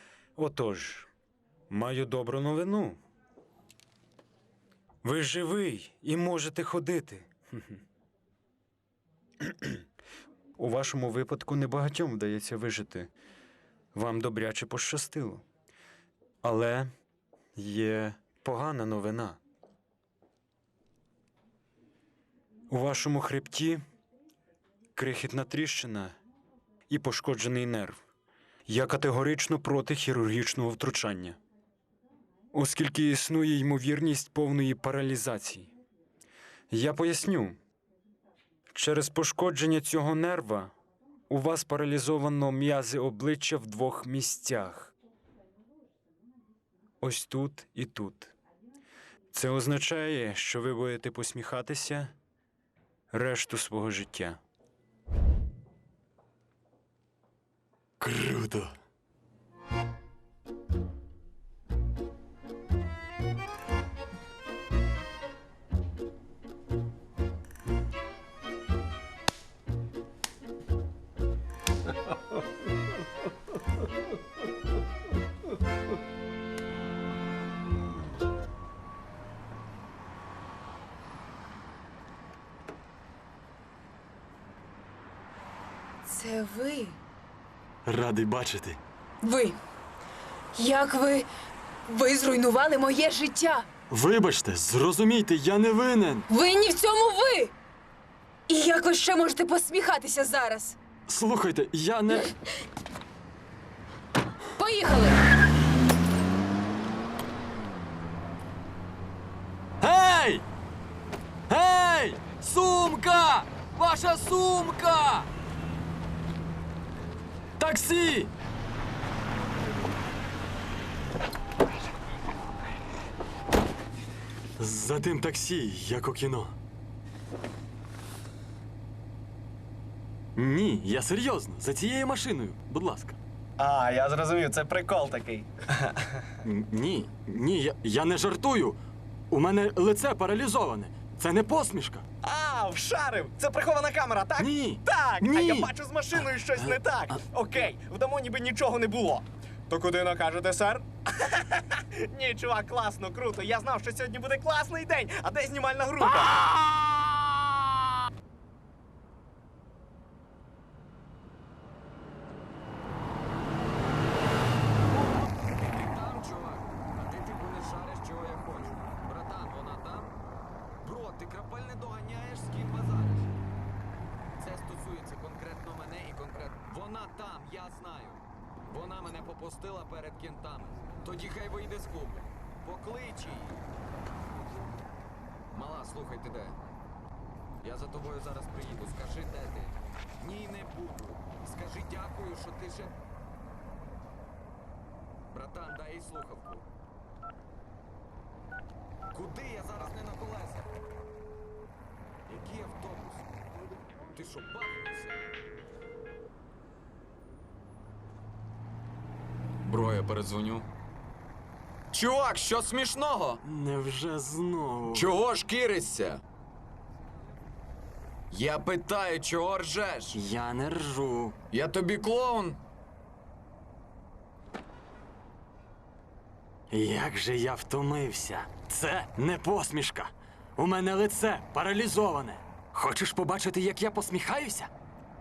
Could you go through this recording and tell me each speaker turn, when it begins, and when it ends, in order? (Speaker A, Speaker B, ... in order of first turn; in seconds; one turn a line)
Speaker A: 0.3-1.1
Speaker A: 1.7-3.0
Speaker A: 5.0-7.7
Speaker A: 9.4-9.8
Speaker A: 10.6-13.1
Speaker A: 13.9-15.4
Speaker A: 16.4-16.9
Speaker A: 17.6-19.4
Speaker A: 22.7-23.8
Speaker A: 24.9-26.1
Speaker A: 26.9-28.0
Speaker A: 28.7-31.4
Speaker A: 32.5-35.7
Speaker A: 36.7-37.6
Speaker A: 38.7-40.7
Speaker A: 41.3-44.9
Speaker A: 47.0-48.3
Speaker A: 49.3-52.1
Speaker A: 53.1-54.4
Speaker B: 58.0-58.8
Speaker C: 86.0-87.0
Speaker B: 87.8-88.8
Speaker C: 89.2-89.6
Speaker C: 90.5-91.3
Speaker C: 91.8-93.7
Speaker B: 93.9-96.2
Speaker C: 96.3-97.5
Speaker C: 98.5-100.8
Speaker B: 101.1-102.3
Speaker C: 104.5-105.2
Speaker B: 109.8-110.4
Speaker B: 111.5-115.3
Speaker B: 117.6-118.3
Speaker B: 124.6-126.5
Speaker B: 130.3-133.2
Speaker D: 133.6-135.5
Speaker B: 136.4-138.8
Speaker B: 139.3-142.0
Speaker D: 142.2-156.4
Speaker B: 144.4-147.2
Speaker E: 156.5-156.9
Speaker E: 165.0-170.2
Speaker E: 170.8-173.3
Speaker E: 174.4-183.6
Speaker E: 185.5-186.6
Speaker E: 187.6-193.0
Speaker E: 195.3-196.7
Speaker E: 199.1-200.7
Speaker E: 202.3-203.4
Speaker E: 204.1-205.3
Speaker E: 209.6-210.7
Speaker E: 211.9-213.4
Speaker B: 213.4-215.1
Speaker E: 214.9-216.2
Speaker E: 218.3-220.2
Speaker B: 220.1-221.4
Speaker E: 221.5-222.6
Speaker B: 226.7-234.7